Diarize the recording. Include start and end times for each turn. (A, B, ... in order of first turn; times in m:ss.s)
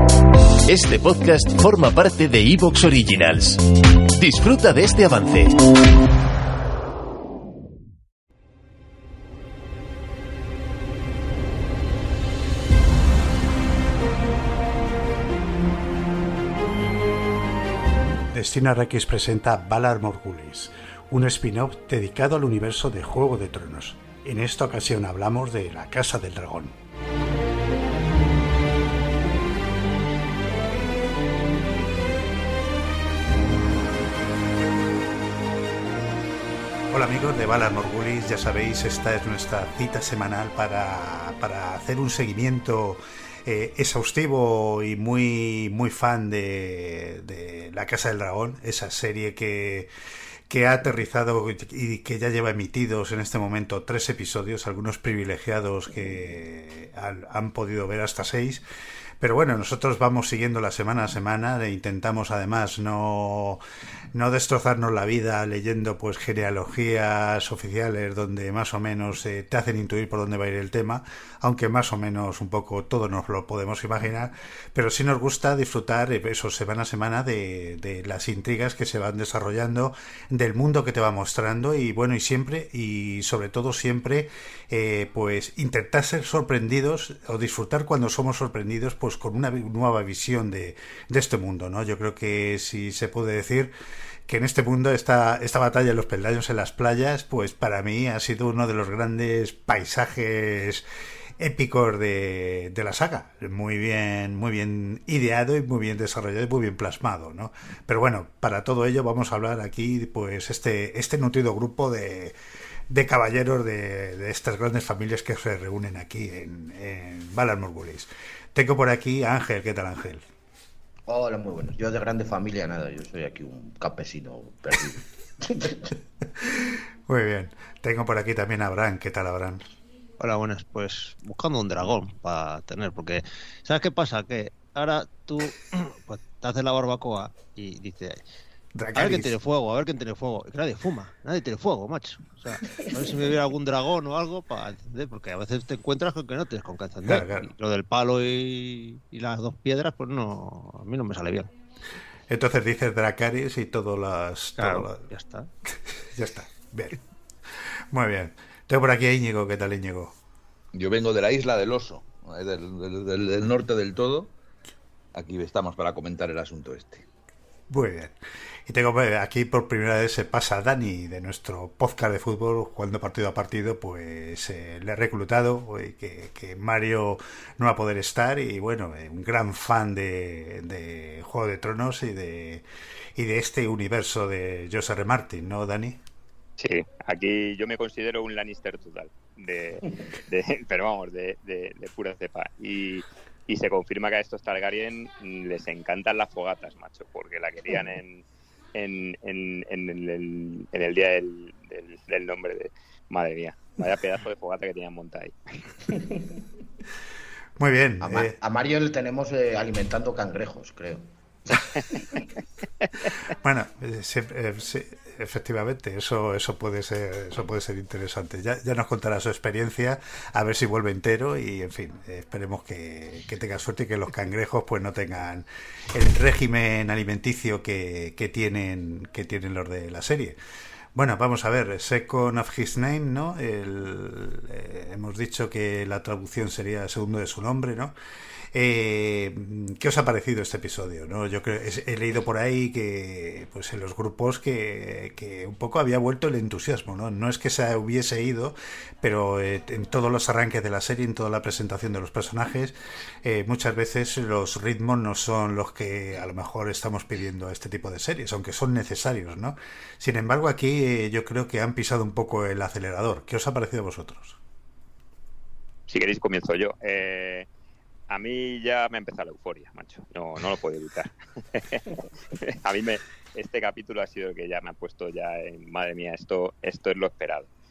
0:00.6-0:03.6 A
0:04.2-0:05.5 A
0:18.3-0:26.7 B
0:36.9-0:49.9 B
0:50.5-0:58.6 B
0:59.2-1:03.6 B
1:04.1-1:33.7 B
1:34.3-1:40.8 B
1:41.4-1:52.4 B
1:52.9-2:00.2 B
2:01.1-2:05.9 C
2:07.1-2:09.6 B
2:10.2-2:18.2 D
2:18.7-2:19.4 B
2:18.9-2:31.5 D
2:27.0-2:27.5 B
2:32.3-2:35.1 B
2:34.6-2:35.5 D
2:36.0-2:37.0 B
2:37.9-2:40.1 B
2:40.7-2:44.3 E
2:45.1-2:47.0 E
2:47.7-2:48.1 B
2:48.6-3:02.6 B
3:03.2-3:06.0 B
3:06.6-3:25.6 F
3:27.6-3:28.4 B
3:28.0-3:31.0 C
3:31.7-3:32.2 F
3:33.4-3:50.4 B
3:50.9-3:57.9 B
3:58.5-4:24.4 B
4:25.9-4:27.5 F
4:28.1-4:37.5 F